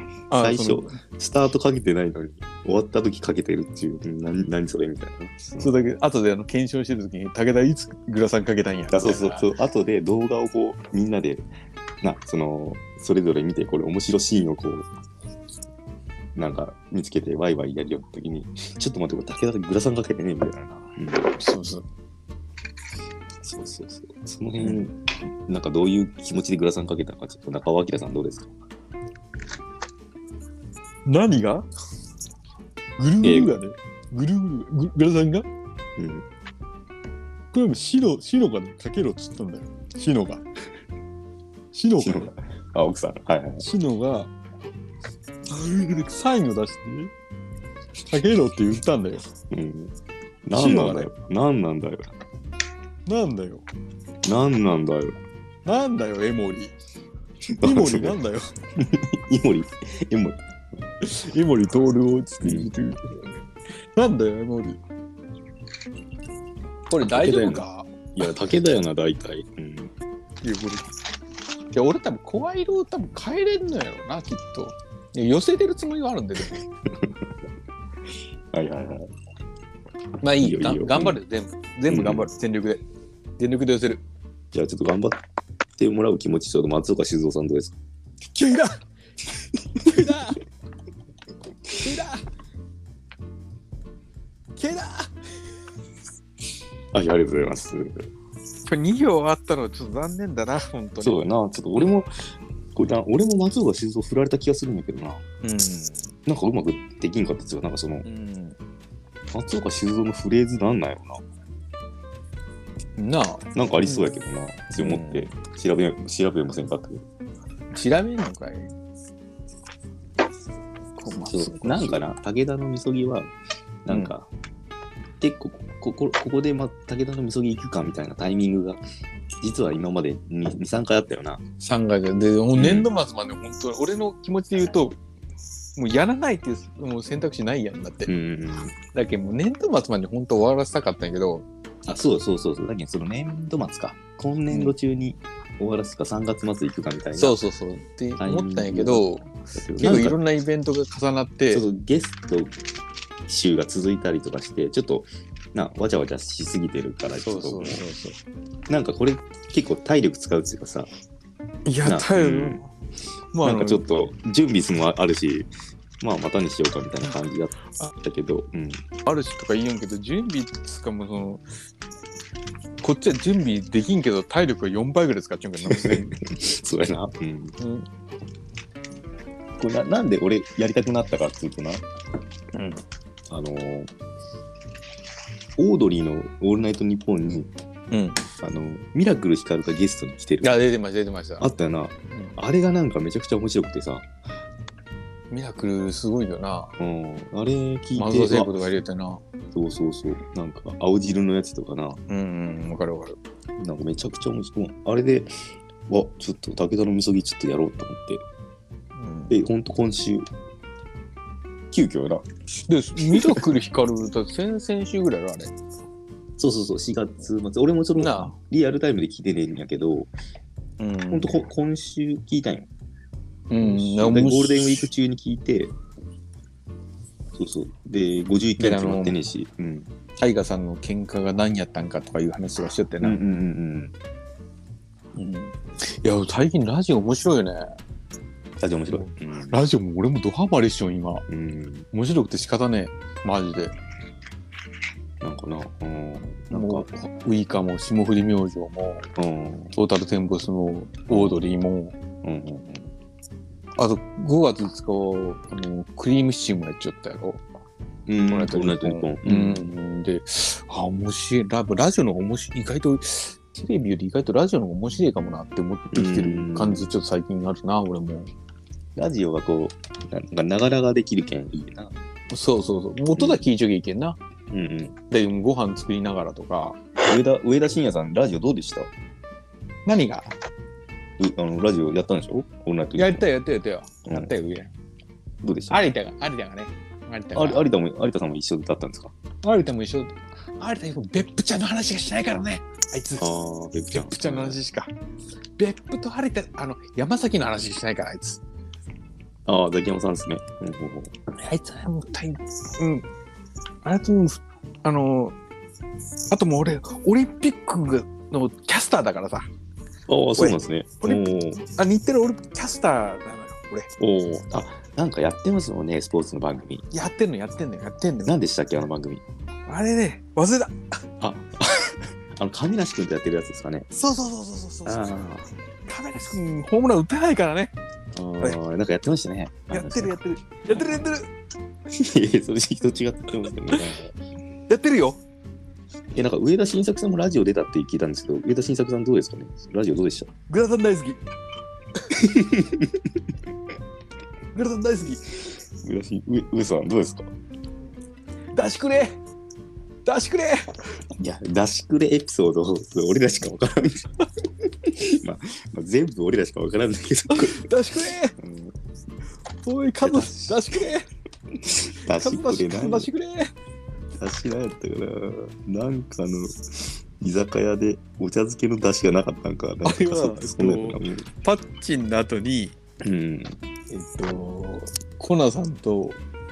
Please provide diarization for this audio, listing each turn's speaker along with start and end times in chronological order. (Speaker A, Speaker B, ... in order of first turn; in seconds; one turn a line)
Speaker A: 0.3-1.0
Speaker B: 0.4-5.7
Speaker A: 5.6-9.5
Speaker B: 8.9-11.5
Speaker B: 12.0-14.9
Speaker B: 16.4-21.3
Speaker A: 21.3-21.9
Speaker B: 23.4-28.5
Speaker A: 24.6-24.9
Speaker A: 31.1-31.7
Speaker A: 33.0-35.5
Speaker B: 33.2-33.6
Speaker B: 36.0-36.3
Speaker A: 37.5-40.4
Speaker A: 41.7-42.3
Speaker B: 42.0-43.6
Speaker A: 43.6-44.3
Speaker A: 45.5-47.1
Speaker A: 48.1-49.2
Speaker B: 49.5-49.9
Speaker B: 50.4-52.1
Speaker A: 50.5-51.1
Speaker A: 53.1-53.6
Speaker B: 54.2-55.2
Speaker A: 55.6-56.8
Speaker B: 57.5-58.1
Speaker A: 57.6-58.5
Speaker B: 58.8-60.4
Speaker A: 61.0-63.4
Speaker B: 62.4-62.7
Speaker A: 63.9-64.8
Speaker A: 66.9-68.3
Speaker B: 67.0-69.9
Speaker A: 70.4-70.9
Speaker A: 71.7-76.6
Speaker B: 76.5-77.2
Speaker B: 78.5-79.1
Speaker A: 80.2-82.8
Speaker B: 80.4-81.2
Speaker B: 81.9-82.3
Speaker A: 83.4-84.0
Speaker B: 84.5-85.2
Speaker B: 85.8-87.8
Speaker A: 88.3-88.8
Speaker A: 89.8-90.4
Speaker A: 91.8-92.2
Speaker A: 94.6-95.1
Speaker B: 96.9-98.1
Speaker A: 98.7-101.2
Speaker B: 101.0-102.1
Speaker B: 102.8-105.2
Speaker A: 105.4-106.1
Speaker B: 106.3-108.1
Speaker A: 108.0-108.6
Speaker B: 109.3-111.2
Speaker A: 113.0-114.0
Speaker B: 113.5-117.0
Speaker A: 114.8-115.3
Speaker A: 117.7-118.7
Speaker A: 121.0-122.0
Speaker B: 121.3-123.3
Speaker B: 123.8-124.3
Speaker B: 125.2-128.8
Speaker B: 129.4-131.4
Speaker A: 131.6-135.0
Speaker B: 132.5-132.9
Speaker A: 135.8-138.1
Speaker B: 138.1-138.8
Speaker A: 138.9-141.4
Speaker B: 141.8-147.4
Speaker A: 144.5-144.8
Speaker A: 147.2-151.6
Speaker B: 148.2-150.2
Speaker B: 151.5-152.6
Speaker B: 153.3-157.8
Speaker A: 157.2-158.2
Speaker B: 158.7-160.9
Speaker A: 161.7-162.7
Speaker B: 161.8-162.6
Speaker A: 163.3-163.8
Speaker B: 163.4-168.8
Speaker A: 169.1-171.4
Speaker A: 172.8-176.2
Speaker B: 175.6-177.6
Speaker A: 177.6-177.9
Speaker B: 179.6-181.8
Speaker A: 182.5-182.8
Speaker B: 183.3-183.9
Speaker B: 185.6-187.5
Speaker A: 187.9-188.2
Speaker B: 188.4-190.6
Speaker A: 190.4-191.5
Speaker B: 191.4-194.1
Speaker A: 192.1-192.4
Speaker A: 195.3-196.8
Speaker B: 196.8-198.5
Speaker A: 197.9-199.2
Speaker B: 199.5-202.0
Speaker A: 202.1-203.2
Speaker B: 203.6-208.2
Speaker A: 208.9-209.4
Speaker B: 209.3-210.3
Speaker B: 211.7-212.3
Speaker A: 212.7-215.5
Speaker B: 213.1-213.4
Speaker B: 216.4-220.1
Speaker A: 218.0-218.4
Speaker A: 220.8-221.4
Speaker B: 221.1-222.7
Speaker A: 223.5-224.9
Speaker B: 223.6-225.8
Speaker B: 227.3-229.9
Speaker A: 228.6-229.2
Speaker A: 230.2-233.2
Speaker B: 233.0-233.9
Speaker A: 235.1-237.7
Speaker B: 238.6-239.6
Speaker A: 238.9-241.2
Speaker B: 241.3-241.9
Speaker A: 241.9-243.8
Speaker B: 245.2-246.9
Speaker A: 246.5-249.1
Speaker B: 249.2-249.8
Speaker A: 249.7-251.9
Speaker B: 251.1-251.4
Speaker B: 252.2-252.9
Speaker A: 253.8-257.4
Speaker B: 258.1-259.7
Speaker A: 258.3-268.3
Speaker B: 265.9-266.9
Speaker B: 268.9-271.9
Speaker A: 272.3-274.2
Speaker B: 273.1-273.5
Speaker B: 274.5-274.9
Speaker A: 275.1-276.8
Speaker B: 277.0-278.9
Speaker A: 279.9-280.3
Speaker B: 281.2-283.2
Speaker A: 282.9-284.7
Speaker B: 284.1-284.3
Speaker B: 285.4-285.8
Speaker A: 285.7-287.6
Speaker B: 287.4-289.1
Speaker A: 289.4-293.3
Speaker B: 293.2-294.6
Speaker A: 293.9-294.9
Speaker A: 295.6-298.4
Speaker B: 299.4-301.1
Speaker A: 301.3-303.1
Speaker A: 303.8-305.4
Speaker A: 306.3-309.5
Speaker B: 310.1-311.6
Speaker A: 310.4-313.9
Speaker B: 314.0-316.9
Speaker A: 316.9-318.4
Speaker B: 318.2-319.2
Speaker A: 319.7-321.0
Speaker B: 321.2-323.9
Speaker A: 323.9-325.2
Speaker B: 324.9-325.5
Speaker A: 325.9-327.7
Speaker B: 328.1-330.1
Speaker A: 329.7-331.3
Speaker B: 330.8-331.0
Speaker B: 331.9-334.1
Speaker A: 334.7-335.2
Speaker B: 336.1-340.3
Speaker A: 340.5-341.2
Speaker B: 342.1-343.1
Speaker A: 344.5-345.2
Speaker B: 345.8-347.3
Speaker A: 348.5-349.2
Speaker A: 350.1-350.6
Speaker B: 351.2-354.1
Speaker B: 354.9-357.6
Speaker A: 357.3-358.4
Speaker B: 358.4-358.8
Speaker A: 359.6-361.1
Speaker B: 360.0-360.6
Speaker B: 361.6-363.1
Speaker A: 362.1-363.5
Speaker B: 364.1-371.3
Speaker A: 369.8-372.8
Speaker B: 373.0-373.6
Speaker A: 373.9-376.2